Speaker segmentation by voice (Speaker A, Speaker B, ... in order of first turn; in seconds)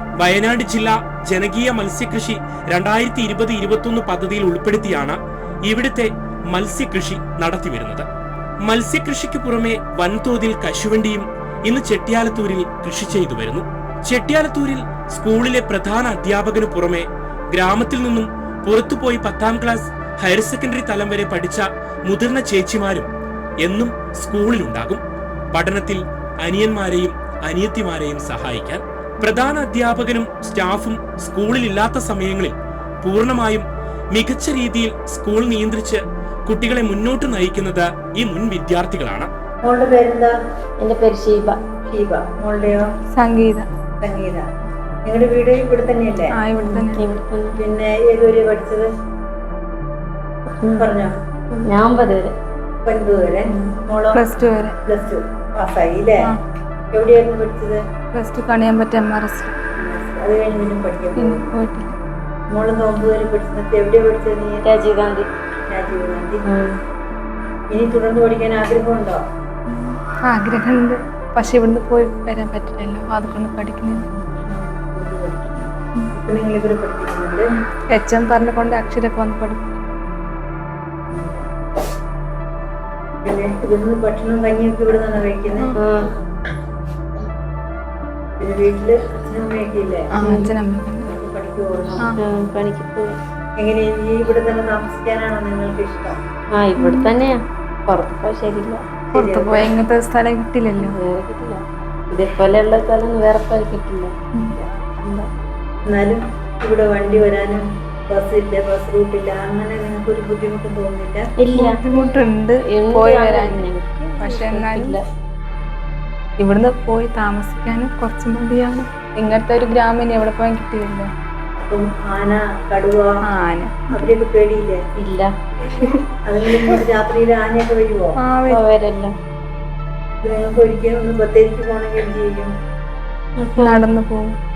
Speaker A: 0.2-8.1, 8.7-23.1, 23.6-25.0, 25.5-39.3
Speaker B: 39.6-40.3, 41.9-42.9, 44.0-44.5, 45.0-46.3, 47.6-48.9, 50.8-51.1, 52.8-56.1, 56.9-57.8, 59.8-61.5, 62.5-64.7, 65.7-66.5, 67.7-69.2, 74.2-77.4, 81.1-81.4, 83.2-85.7, 88.4-90.1, 91.0-92.0, 93.6-96.2, 99.1-99.8, 105.9-111.2, 121.6-123.1, 123.9-124.8, 126.2-128.1, 130.2-132.5
Speaker C: 40.8-41.6, 46.6-47.5, 51.6-52.3, 64.7-65.2, 85.8-86.1, 90.3-90.5, 92.1-93.2, 96.6-98.8, 100.8-104.1, 111.4-115.0, 125.0-125.3, 128.5-129.1, 133.4-133.8
Speaker D: 43.2-43.7, 46.4-47.1, 54.1-54.8, 58.1-59.5, 61.2-61.9, 69.7-74.1, 77.9-79.6, 90.1-91.1, 96.8-97.1, 99.1-101.0, 111.4-115.0, 116.4-121.1, 123.3-123.9, 128.2-128.7, 133.6-134.4